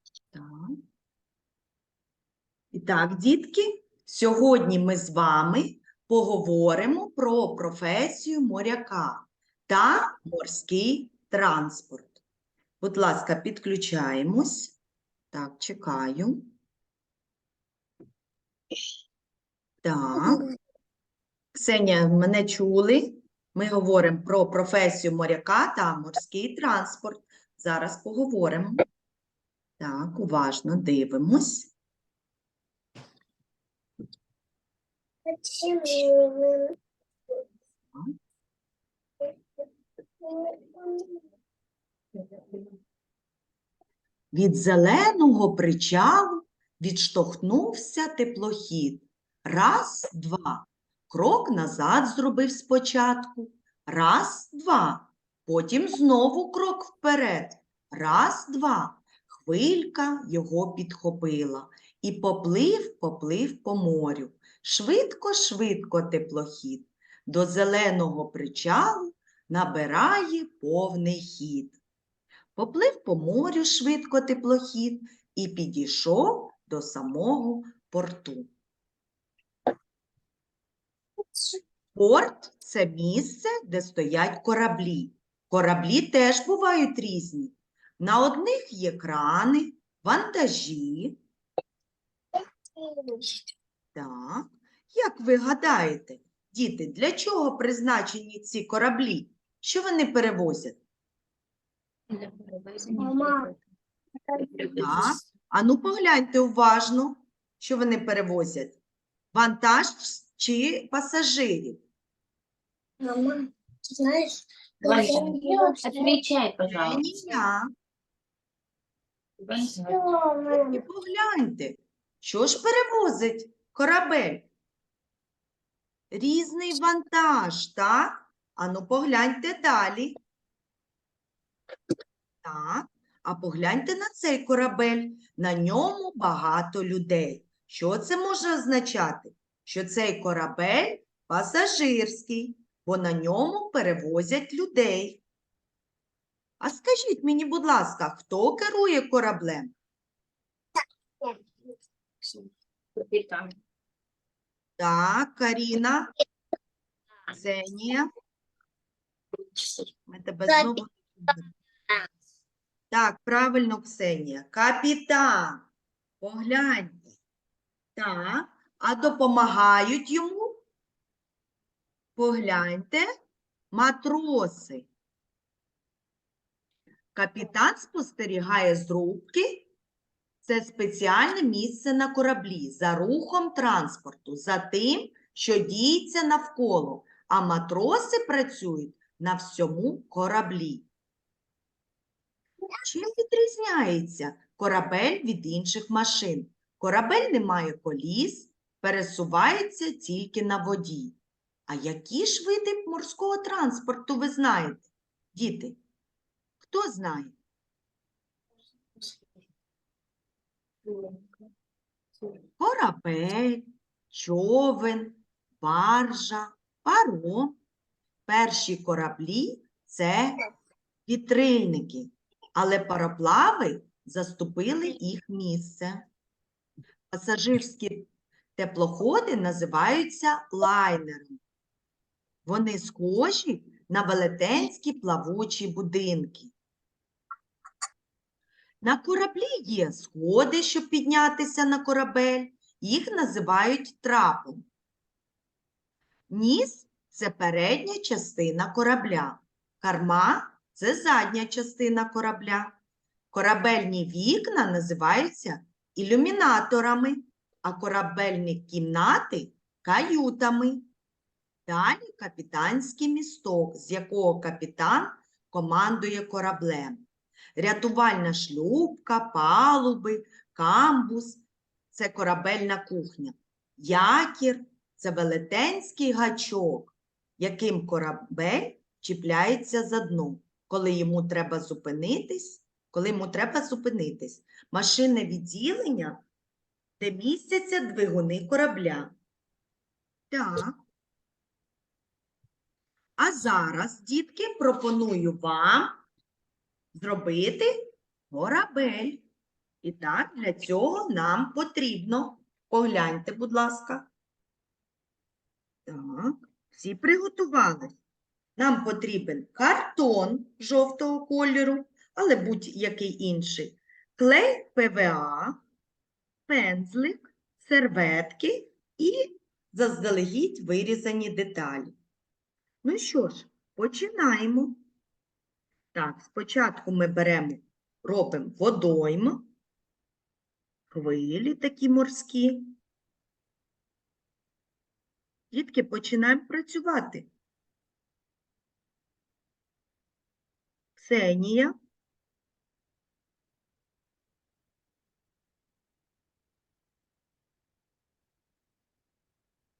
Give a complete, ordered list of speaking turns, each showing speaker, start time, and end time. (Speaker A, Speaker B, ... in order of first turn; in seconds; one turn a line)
Speaker A: 0.3-0.8
Speaker A: 2.7-12.2
Speaker A: 12.8-14.8
Speaker A: 15.3-16.5
Speaker A: 19.8-20.4
Speaker A: 21.5-28.8
Speaker A: 29.8-31.7
Speaker B: 35.3-36.8
Speaker B: 40.2-41.2
Speaker B: 42.2-42.7
Speaker A: 44.3-71.8
Speaker A: 72.6-78.5
Speaker A: 82.0-91.2
Speaker B: 92.8-93.2
Speaker A: 94.0-100.8
Speaker C: 102.1-103.6
Speaker B: 103.0-103.5
Speaker C: 104.3-105.2
Speaker A: 104.8-108.8
Speaker A: 109.3-111.8
Speaker B: 113.0-116.2
Speaker C: 114.8-117.0
Speaker A: 116.7-117.6
Speaker B: 116.8-117.4
Speaker C: 119.4-120.0
Speaker B: 119.8-120.8
Speaker A: 120.5-124.5
Speaker A: 126.1-130.2
Speaker A: 132.4-145.2
Speaker A: 146.6-149.7
Speaker C: 152.2-153.6
Speaker A: 154.8-156.1
Speaker A: 157.3-158.1
Speaker A: 160.1-161.5
Speaker A: 162.9-165.7
Speaker A: 166.2-167.0
Speaker A: 168.0-170.6
Speaker A: 172.2-173.1
Speaker A: 173.7-174.9
Speaker A: 177.2-179.7
Speaker A: 180.4-190.9
Speaker A: 192.8-201.2
Speaker A: 201.7-205.8
Speaker A: 206.6-207.3
Speaker C: 210.9-211.5
Speaker A: 212.6-217.6
Speaker A: 218.3-220.5
Speaker A: 221.1-226.0
Speaker A: 227.1-231.4
Speaker A: 232.5-236.5
Speaker A: 238.8-244.7
Speaker A: 246.3-252.8
Speaker A: 253.3-260.8
Speaker A: 261.7-286.2
Speaker A: 287.0-289.1
Speaker A: 290.3-290.8
Speaker A: 293.2-295.9
Speaker A: 296.9-297.7
Speaker A: 298.3-299.2
Speaker A: 299.8-304.1
Speaker A: 305.9-307.9
Speaker A: 308.6-315.6
Speaker A: 316.5-321.9
Speaker A: 322.8-324.8
Speaker A: 325.9-329.5
Speaker A: 330.9-332.8
Speaker A: 335.5-337.3
Speaker A: 341.0-341.8